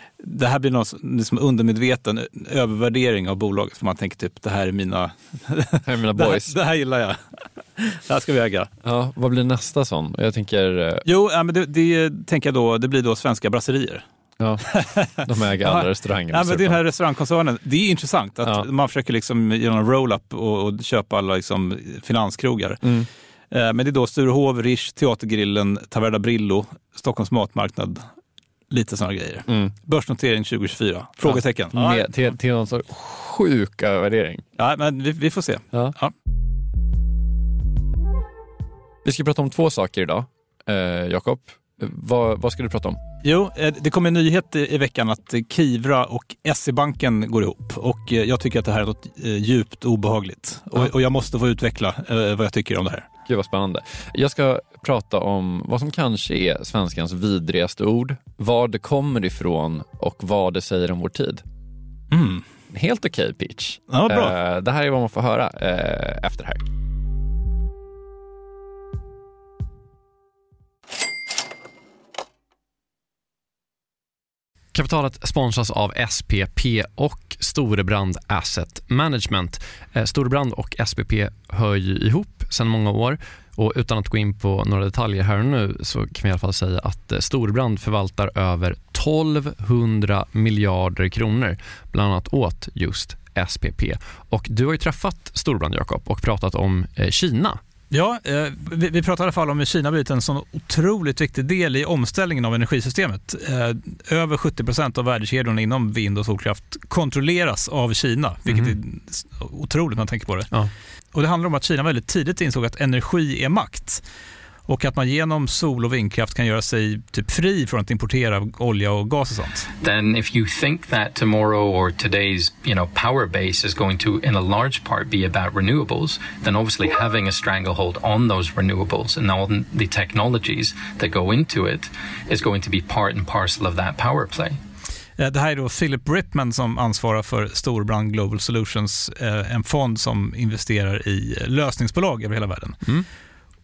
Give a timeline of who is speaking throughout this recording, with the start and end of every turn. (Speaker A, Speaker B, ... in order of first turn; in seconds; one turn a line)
Speaker A: 0.2-8.7
Speaker B: 5.8-6.5
Speaker B: 8.8-11.0
Speaker A: 11.0-14.0
Speaker B: 14.4-16.8
Speaker A: 14.7-22.8
Speaker B: 22.8-23.1
Speaker A: 23.5-28.1
Speaker A: 28.7-32.1
Speaker B: 29.5-29.7
Speaker B: 31.2-34.4
Speaker A: 34.6-36.1
Speaker B: 39.0-43.0
Speaker A: 43.2-53.0
Speaker B: 53.3-61.4
Speaker A: 62.1-62.4
Speaker B: 62.7-66.6
Speaker A: 63.9-64.3
Speaker B: 74.7-97.6
Speaker A: 97.9-110.5
Speaker B: 108.5-108.7
Speaker A: 111.1-114.0
Speaker A: 114.7-119.7
Speaker C: 119.8-134.6
Speaker A: 135.2-142.8